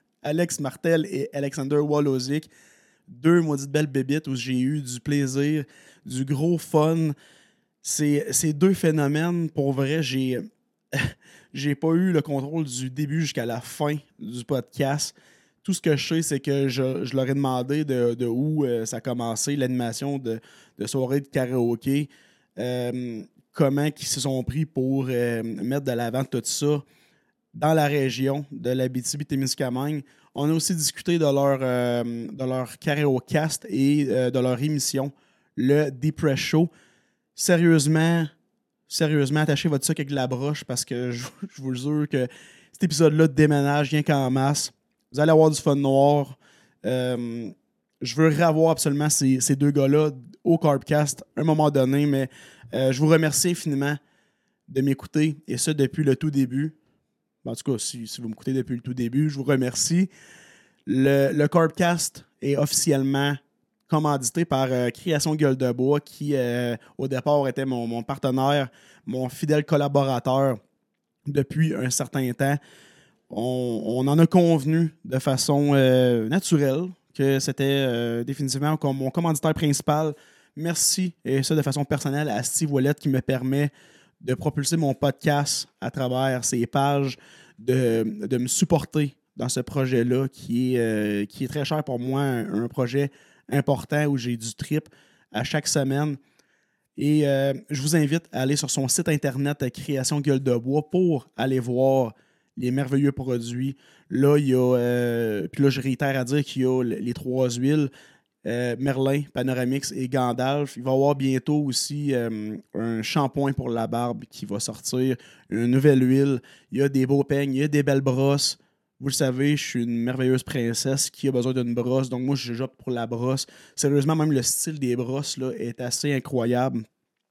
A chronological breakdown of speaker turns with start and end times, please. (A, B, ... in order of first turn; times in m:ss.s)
0:00.2-0:02.5 A
0:03.1-0:07.1 A
0:07.8-0:26.8 A
0:27.5-0:36.7 A
0:37.4-0:38.3 A
0:38.9-0:54.0 A
0:54.7-0:56.7 A
0:57.4-1:00.1 A
1:00.9-1:10.6 A
1:11.2-1:12.6 A
1:13.3-1:23.7 A
1:24.2-1:36.2 A
1:37.0-1:47.9 A
1:48.4-2:06.8 A